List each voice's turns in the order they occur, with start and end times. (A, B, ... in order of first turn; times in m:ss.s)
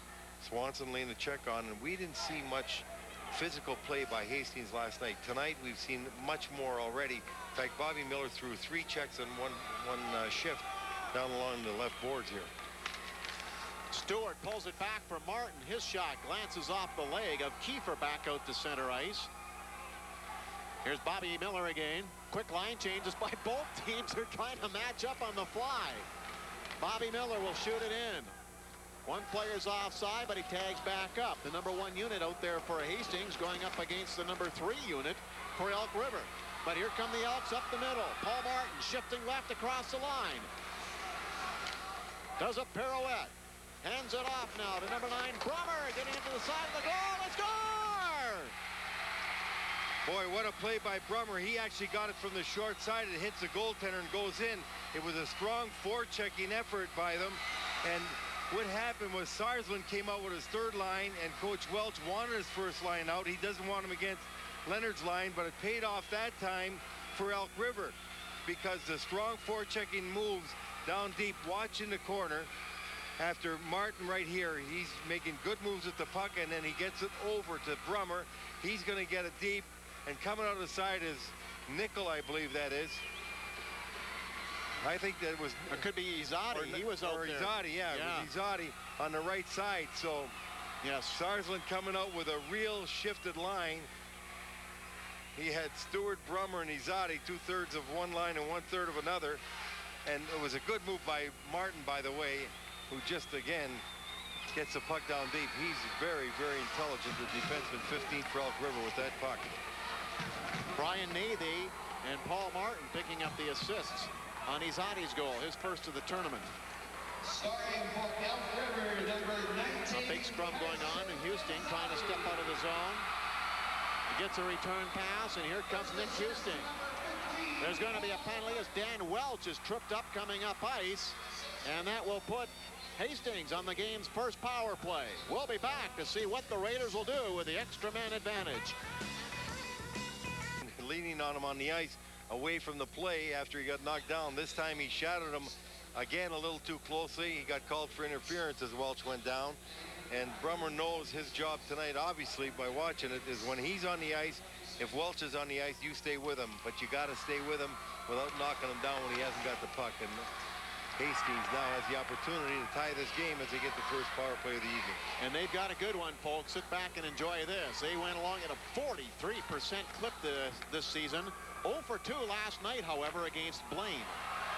0:00.4-0:12.5 A
0:13.9-0:19.3 B
0:20.8-0:26.1 B
0:26.8-0:28.3 B
0:29.0-0:40.5 B
0:42.4-0:48.5 B
0:50.0-1:12.5 A
1:13.2-1:23.0 A
1:24.8-1:25.9 A
1:25.7-1:28.3 B
1:26.5-1:30.3 A
1:30.8-1:31.2 B
1:31.1-1:33.9 A
1:35.3-1:39.4 A
1:40.0-1:43.8 A
1:44.5-1:49.5 A
1:50.8-1:56.5 B
1:57.3-1:59.8 C
1:59.9-2:03.1 B
2:04.1-2:06.7 B
2:07.6-2:18.8 B
2:20.6-2:29.6 A
2:30.1-2:40.3 A
2:41.0-2:45.0 A
2:45.2-2:54.2 B